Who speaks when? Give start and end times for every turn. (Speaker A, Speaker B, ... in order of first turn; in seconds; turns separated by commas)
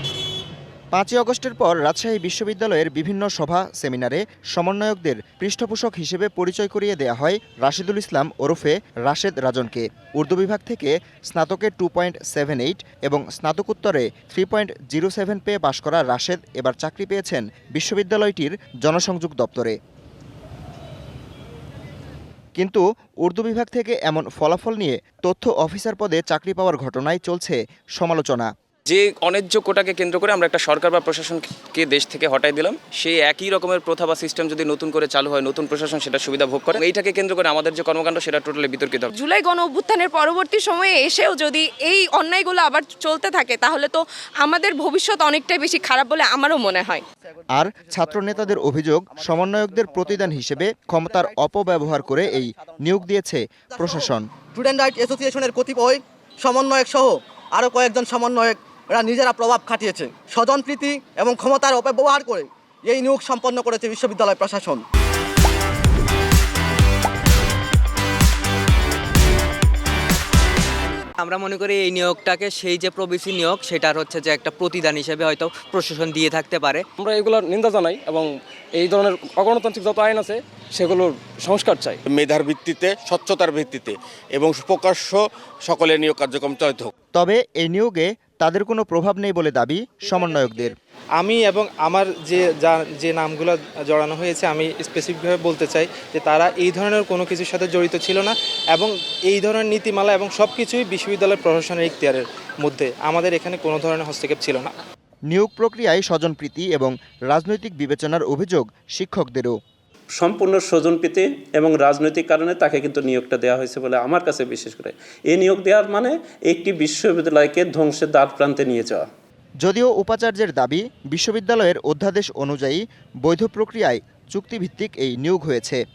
Speaker A: 0.9-19.8, Speaker A: 22.6-28.5, Speaker B: 28.9-39.1, Speaker C: 39.1-47.0, Speaker A: 47.6-54.3, Speaker D: 47.9-51.4, Speaker D: 51.9-52.8, Speaker D: 53.8-64.8, Speaker E: 71.2-76.8, Speaker F: 77.0-82.0, Speaker G: 82.1-86.9, Speaker A: 87.2-90.8, Speaker H: 91.2-104.7, Speaker A: 105.3-109.5, Speaker I: 110.2-119.1, Speaker A: 119.6-125.8